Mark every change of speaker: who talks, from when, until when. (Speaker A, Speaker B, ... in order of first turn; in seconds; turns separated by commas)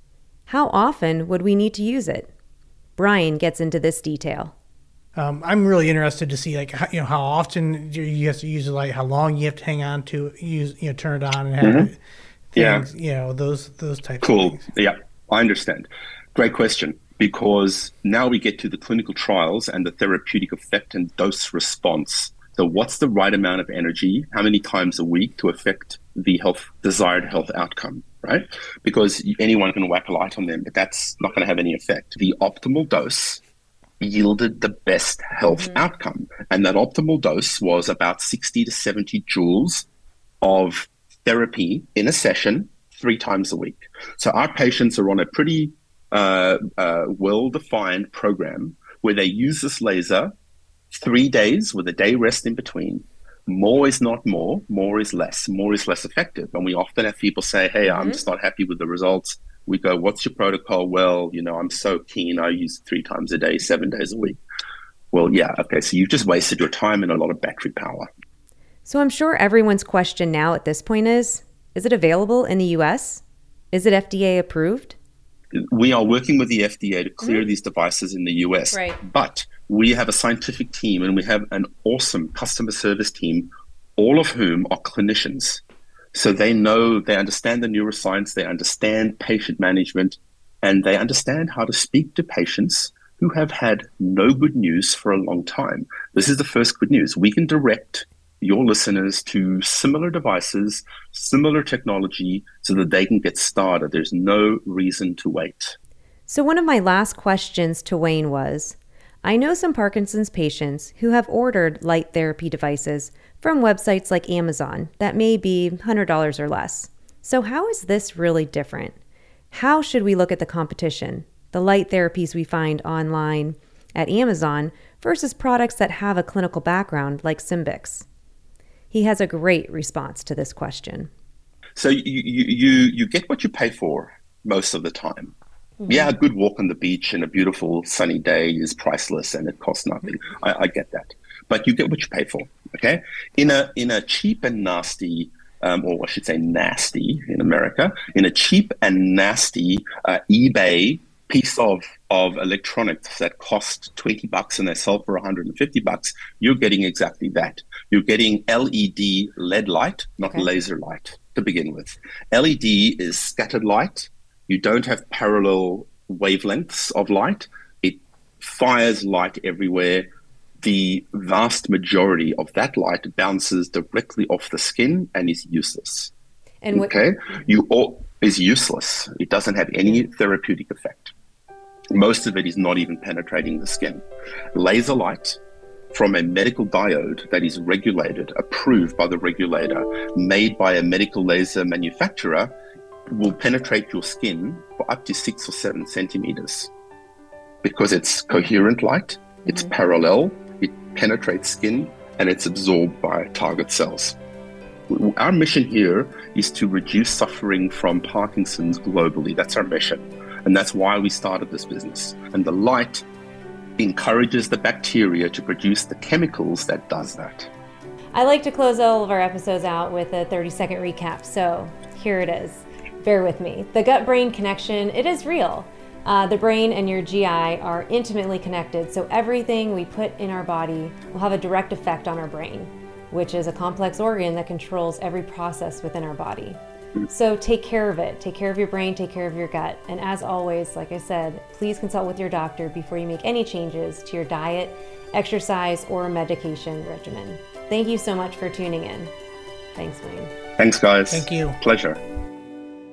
Speaker A: 0.5-2.3, Speaker A: 3.0-4.5, Speaker B: 5.2-12.0, Speaker C: 11.6-11.9, Speaker B: 12.5-14.6, Speaker C: 12.5-12.8, Speaker C: 14.2-33.4, Speaker C: 34.0-39.9, Speaker A: 35.4-35.8, Speaker C: 40.4-50.3, Speaker C: 50.9-64.4, Speaker A: 57.8-58.2, Speaker C: 65.1-68.1, Speaker A: 68.8-75.0, Speaker C: 75.5-85.6, Speaker A: 78.7-79.0, Speaker C: 86.1-105.8, Speaker A: 106.3-119.0, Speaker A: 119.5-128.1, Speaker A: 128.9-131.1, Speaker C: 131.8-135.3, Speaker A: 135.8-136.1, Speaker C: 135.9-170.1, Speaker C: 170.6-176.1, Speaker A: 176.6-177.0, Speaker C: 176.7-181.1, Speaker C: 181.9-184.0, Speaker C: 184.5-185.4, Speaker C: 185.9-192.5, Speaker C: 193.1-196.7, Speaker C: 197.6-204.2, Speaker C: 204.9-213.0, Speaker C: 213.8-217.5, Speaker A: 218.1-249.1, Speaker A: 249.7-250.3, Speaker C: 250.6-252.0, Speaker B: 251.1-251.6